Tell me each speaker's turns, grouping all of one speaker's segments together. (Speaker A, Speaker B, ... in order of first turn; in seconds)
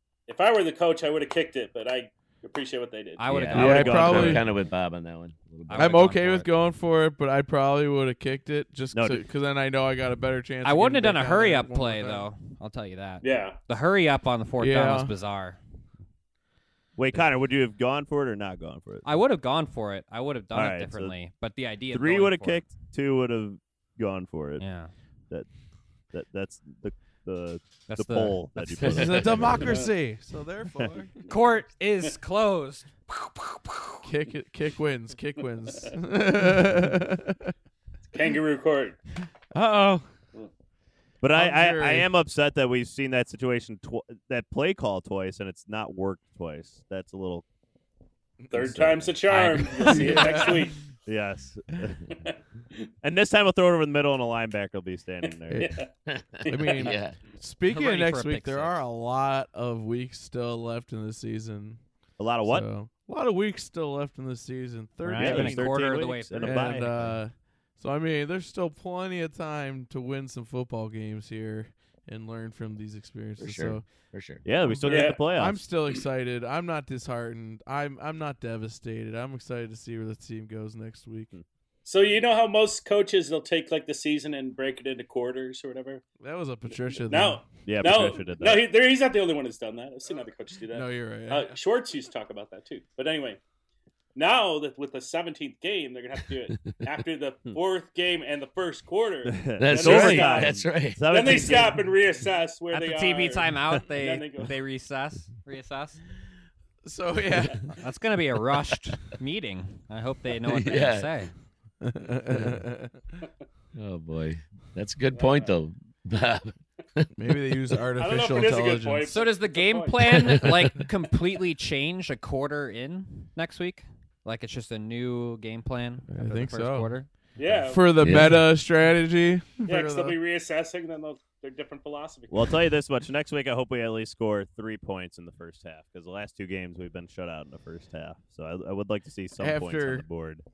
Speaker A: 0.3-3.2, 13.2-13.6, 38.1-39.0, 48.5-50.8, 52.1-52.4, 55.5-55.9, 74.8-75.3, 81.8-86.0, 86.9-93.4, 94.1-104.5, 115.1-115.5, 118.0-120.0, 127.3-128.2, 129.7-132.5
Speaker B: 3.2-4.3, 5.7-6.5, 10.6-15.6, 19.0-22.6, 24.6-24.9, 27.9-29.0, 31.3-32.9, 49.3-50.2, 57.7-58.8, 65.0-67.1, 102.7-106.0, 107.8-111.3, 119.1-127.1
Speaker C: 3.3-6.1, 28.8-29.4, 56.1-57.2, 73.4-74.4, 99.6-101.7, 110.5-111.1, 113.7-117.1, 120.1-120.5, 128.0-128.4
Speaker D: 3.5-4.4, 5.7-12.2, 14.6-15.1, 28.8-31.1, 34.0-37.5, 39.5-40.1, 41.3-42.1, 48.4-48.9, 49.8-50.6, 56.5-61.8, 62.4-65.7, 66.4-73.8, 74.7-81.3, 86.2-88.2, 90.7-91.5, 106.8-107.6, 111.8-113.0, 117.2-119.2, 126.1-126.9, 127.7-130.2, 139.4-140.0
Speaker E: 3.5-4.4, 8.9-9.2, 16.9-19.1, 20.5-21.1, 21.9-24.6, 26.1-29.8, 41.2-47.4, 51.1-52.0, 53.0-55.7, 62.2-62.7, 65.2-67.0, 74.4-75.6, 87.6-88.7, 99.2-101.9, 132.3-140.4